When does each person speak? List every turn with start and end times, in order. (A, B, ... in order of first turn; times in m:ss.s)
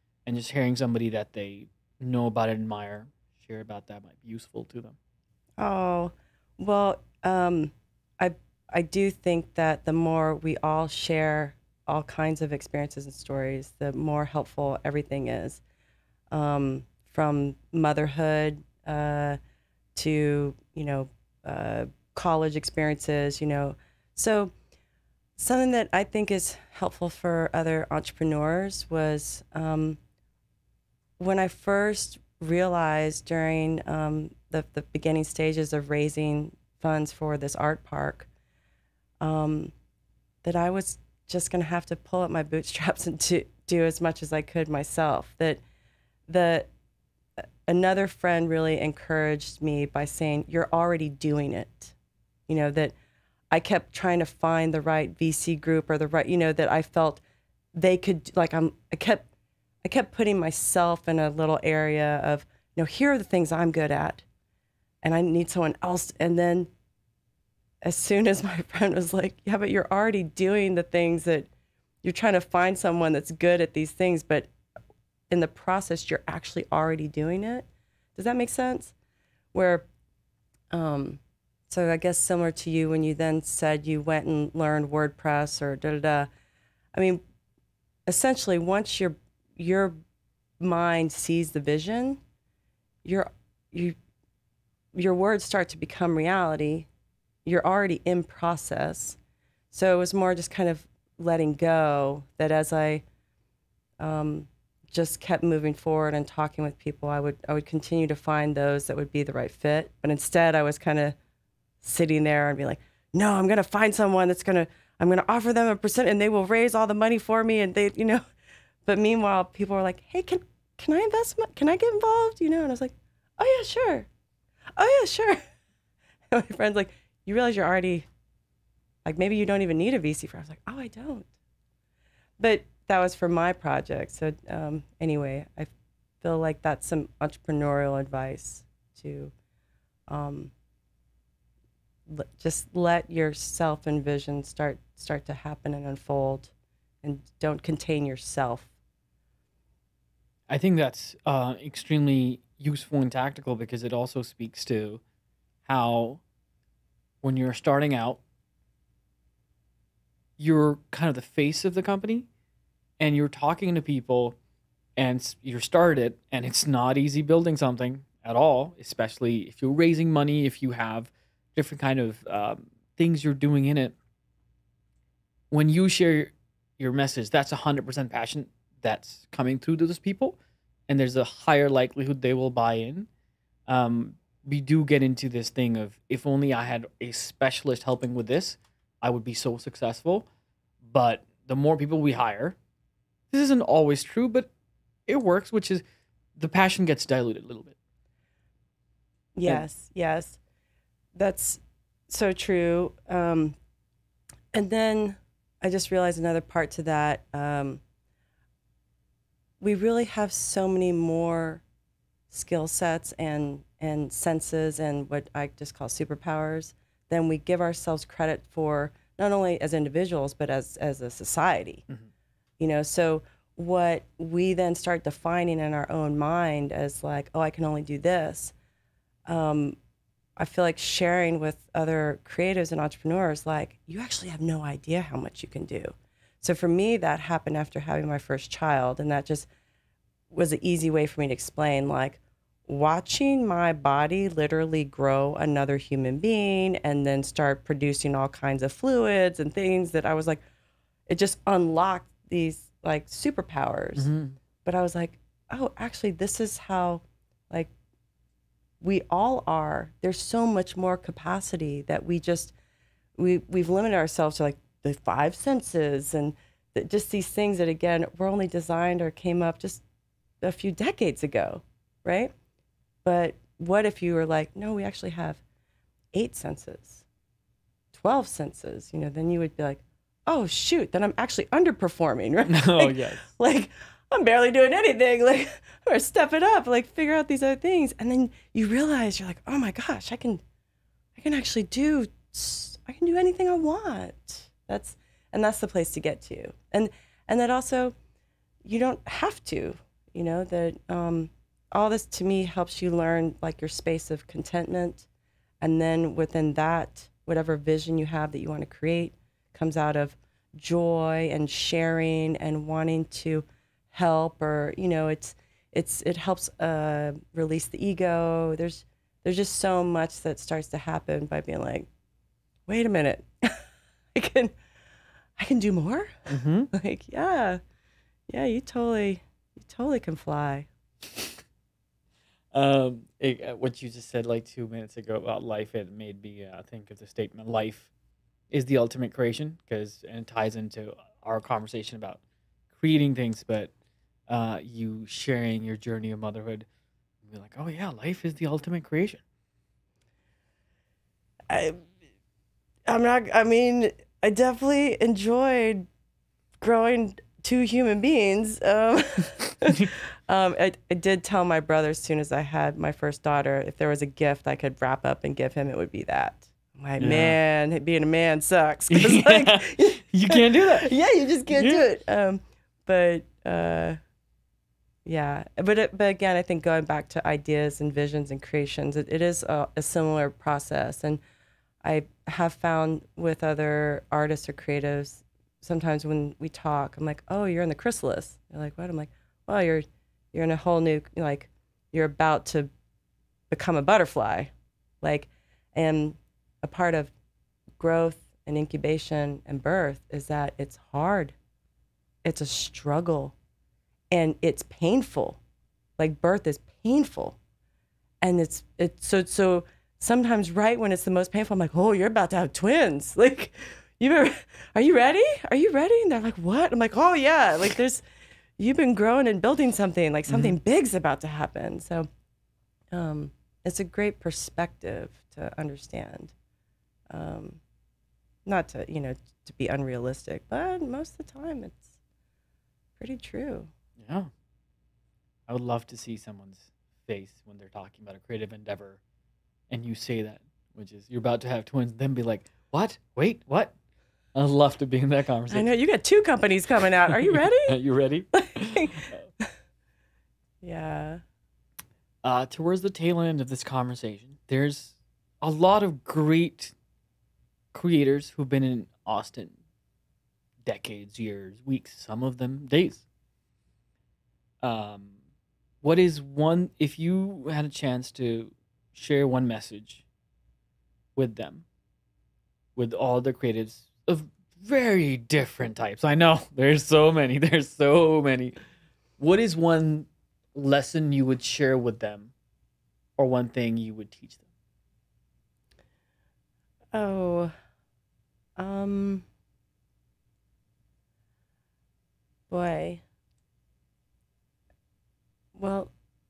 0:00.2-0:05.0 A
0:05.6-0:15.6 B
0:16.3-0:19.4 B
0:20.0-0:24.5 B
0:25.4-0:30.0 B
0:31.2-0:38.3 B
0:39.2-0:39.7 B
0:40.4-0:45.6 B
0:46.3-0:46.7 B
0:47.7-0:51.9 B
0:52.5-0:52.9 B
0:53.5-0:57.2 B
0:57.7-0:59.2 B
0:59.8-1:04.2 B
1:05.0-1:06.7 B
1:07.8-1:11.5 B
1:12.0-1:14.5 B
1:15.3-1:18.9 B
1:19.5-1:19.8 B
1:20.7-1:26.3 B
1:26.9-1:27.2 B
1:28.1-1:29.9 B
1:30.6-1:32.2 B
1:33.0-1:34.0 B
1:34.9-1:36.9 B
1:37.4-1:39.2 B
1:39.7-1:43.0 B
1:44.0-1:51.2 B
1:51.8-1:58.2 B
1:58.8-2:04.1 B
2:04.8-2:05.4 B
2:06.3-2:08.1 B
2:09.0-2:11.3 B
2:12.4-2:19.3 B
2:20.1-2:20.5 B
2:22.1-2:26.5 B
2:27.0-2:28.7 B
2:30.5-2:35.0 A
2:35.6-2:36.2 A
2:37.2-2:38.2 A
2:40.4-2:42.3 A
2:43.0-2:44.4 A
2:45.0-2:54.0 A
2:55.5-3:03.1 A
3:03.7-3:10.3 A
3:10.8-3:12.6 A
3:13.3-3:14.5 A
3:15.1-3:15.8 A
3:16.4-3:17.8 A
3:19.3-3:20.4 B
3:21.1-3:23.6 B
3:24.5-3:27.8 B
3:29.6-3:31.6 B
3:32.3-3:41.8 B
3:42.6-3:48.5 B
3:49.3-3:49.8 B
3:50.4-3:59.5 B
4:00.3-4:10.4 B
4:11.1-4:14.1 B
4:14.0-4:14.4 A
4:14.6-4:17.7 B
4:18.8-4:22.5 B
4:23.2-4:29.8 B
4:30.4-4:32.3 B
4:33.0-4:35.4 B
4:36.1-4:37.0 B
4:37.9-4:50.4 B
4:42.4-4:43.2 A
4:51.2-4:57.9 B
4:58.6-5:05.1 B
5:05.6-5:21.9 B
5:22.7-5:23.6 B
5:24.1-5:24.5 B
5:25.4-5:27.6 B
5:26.3-5:26.7 A
5:28.3-5:30.7 B
5:32.5-5:37.9 A
5:38.5-5:42.2 A
5:42.7-5:43.7 A
5:44.3-5:46.7 A
5:47.2-5:49.2 A
5:51.5-5:51.8 B
5:52.9-5:55.9 B
5:56.6-6:14.0 B
6:07.0-6:07.4 A
6:08.9-6:10.9 A
6:11.5-6:11.8 A
6:15.0-6:21.2 B
6:21.8-6:32.7 B
6:33.5-6:34.5 B
6:35.0-6:37.1 B
6:37.8-6:41.3 B
6:42.2-6:43.3 B
6:44.1-6:45.4 B
6:46.0-6:47.4 B
6:48.2-6:58.0 B
6:58.6-7:02.1 B
7:00.3-7:00.6 A
7:02.9-7:06.3 B
7:07.1-7:07.6 B
7:08.4-7:11.9 B
7:13.0-7:13.7 B
7:14.0-7:14.3 A
7:15.5-7:19.0 A
7:19.7-7:23.7 A
7:24.3-7:25.7 A
7:25.5-7:27.8 B
7:27.1-7:29.2 A
7:28.3-7:29.5 B
7:30.6-7:31.2 B
7:32.2-7:36.7 A
7:37.7-7:39.5 A
7:40.6-7:43.0 A
7:44.6-7:45.1 A
7:45.8-7:50.0 A
7:51.2-7:51.6 A
7:52.8-7:58.6 A
7:59.2-8:02.3 A
8:03.2-8:04.4 A
8:06.9-8:07.5 B
8:08.6-8:09.2 B
8:12.5-8:13.0 B
8:15.5-8:15.9 B